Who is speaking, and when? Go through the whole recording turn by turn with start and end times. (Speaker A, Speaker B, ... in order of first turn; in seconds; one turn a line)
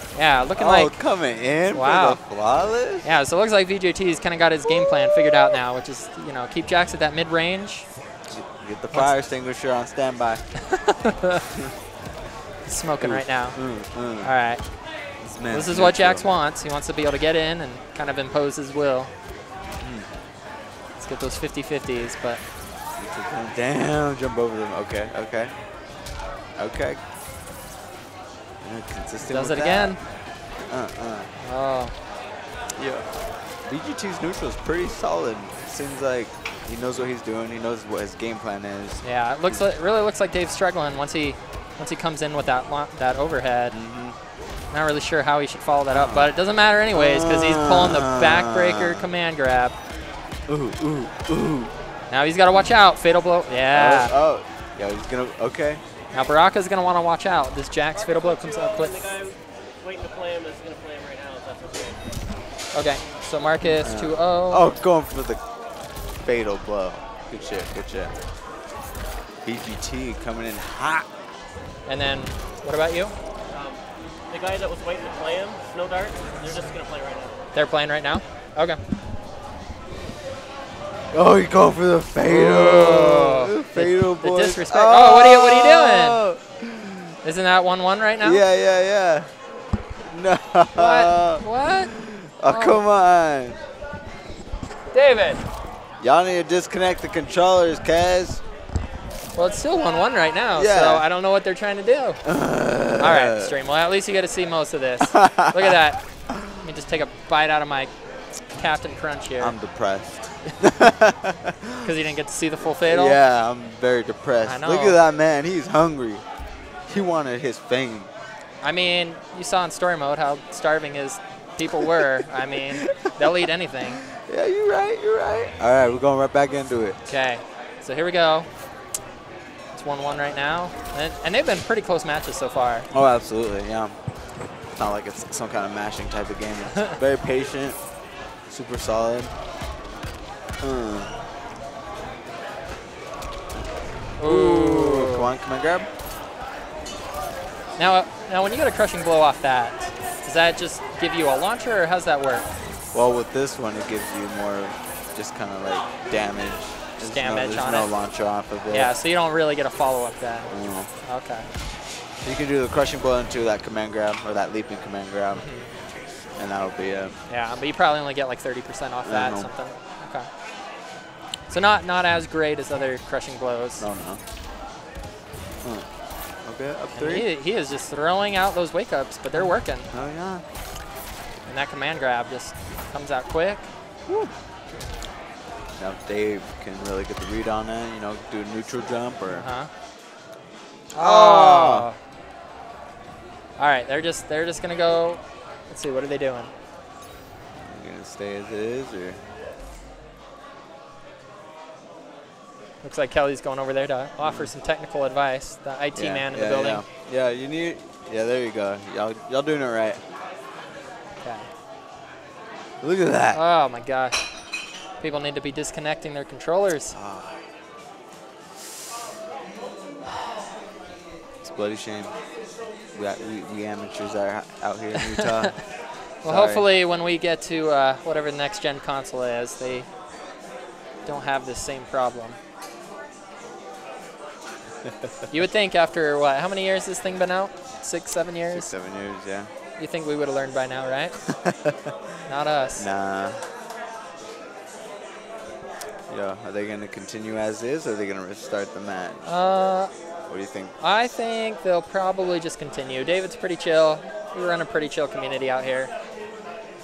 Speaker A: 0.1-1.0
Speaker B: 0.6-3.0
Speaker A: 1.7-2.2
Speaker A: 3.0-7.9
Speaker B: 8.3-10.4
Speaker A: 10.9-11.4
Speaker A: 12.6-13.6
Speaker B: 13.0-14.3
Speaker A: 14.2-14.6
Speaker B: 15.2-16.3
Speaker A: 15.5-19.1
Speaker B: 19.8-20.1
Speaker A: 21.0-22.4
Speaker B: 23.0-25.5
Speaker B: 26.6-27.0
Speaker B: 28.6-30.0
Speaker A: 29.2-30.0
Speaker B: 30.7-31.3
Speaker A: 31.4-31.9
Speaker B: 32.8-33.0
Speaker B: 33.6-39.6
Speaker A: 39.0-43.7
Speaker B: 43.7-44.1
Speaker A: 44.7-49.7
Speaker B: 45.9-46.3
Speaker B: 46.9-49.1
Speaker B: 50.5-51.7
Speaker A: 52.1-54.1
Speaker B: 53.7-55.8
Speaker A: 56.1-58.9
Speaker C: 58.0-62.0
Speaker A: 62.7-64.7
Speaker B: 63.8-65.4
Speaker B: 66.2-68.1
Speaker B: 69.4-71.1
Speaker A: 71.8-73.1
Speaker C: 73.5-77.3
Speaker A: 77.5-78.8
Speaker B: 81.1-87.1
Speaker A: 82.2-86.2
Speaker A: 87.2-88.4
Speaker B: 88.2-89.3
Speaker B: 90.0-93.6
Speaker A: 90.7-91.9
Speaker A: 92.4-92.8
Speaker A: 94.9-95.4
Speaker B: 96.0-98.4
Speaker A: 99.3-102.2
Speaker B: 100.5-101.1
Speaker B: 102.2-103.5
Speaker A: 103.0-107.9
Speaker B: 105.1-105.7
Speaker A: 108.5-109.5
Speaker B: 109.4-111.9
Speaker A: 111.8-113.2
Speaker B: 112.8-116.2
Speaker A: 114.4-115.0
Speaker B: 116.9-118.1
Speaker A: 118.6-124.0
Speaker B: 124.2-127.0
Speaker A: 127.0-128.5
Speaker A: 129.7-132.9
Speaker B: 132.9-133.9
Speaker B: 134.7-137.8
Speaker B: 138.5-139.3
Speaker B: 140.6-141.2
Speaker A: 144.2-145.3
Speaker B: 144.2-145.9
Speaker A: 147.8-152.4
Speaker B: 152.9-158.9
Speaker A: 157.0-157.9
Speaker A: 158.7-161.5
Speaker B: 160.5-160.9
Speaker B: 162.2-165.5
Speaker A: 165.3-165.7
Speaker B: 166.3-167.2
Speaker A: 167.3-170.3
Speaker B: 169.0-169.5
Speaker A: 171.5-173.9
Speaker B: 173.8-174.2
Speaker B: 176.4-177.2
Speaker A: 176.9-179.9
Speaker B: 179.4-180.4
Speaker A: 181.4-183.7
Speaker B: 184.1-184.3
Speaker B: 185.8-189.5
Speaker A: 189.3-189.7
Speaker B: 190.9-191.9
Speaker A: 190.9-192.0
Speaker A: 193.6-196.5
Speaker B: 197.6-199.2
Speaker A: 202.8-206.8
Speaker B: 204.2-204.5
Speaker B: 205.9-210.0
Speaker A: 211.2-211.5
Speaker B: 212.8-213.4
Speaker A: 213.3-214.2
Speaker A: 215.0-216.9
Speaker B: 216.9-217.4
Speaker B: 221.4-222.1
Speaker B: 222.9-225.6
Speaker A: 225.1-225.5
Speaker B: 226.2-226.7
Speaker A: 226.2-229.9
Speaker A: 231.0-232.4
Speaker A: 235.3-238.7
Speaker B: 238.5-239.5
Speaker A: 239.8-241.1
Speaker B: 241.3-241.9
Speaker A: 242.2-242.9
Speaker B: 242.8-243.4
Speaker B: 246.1-249.3
Speaker A: 249.2-249.9
Speaker B: 250.3-250.7
Speaker A: 250.8-255.9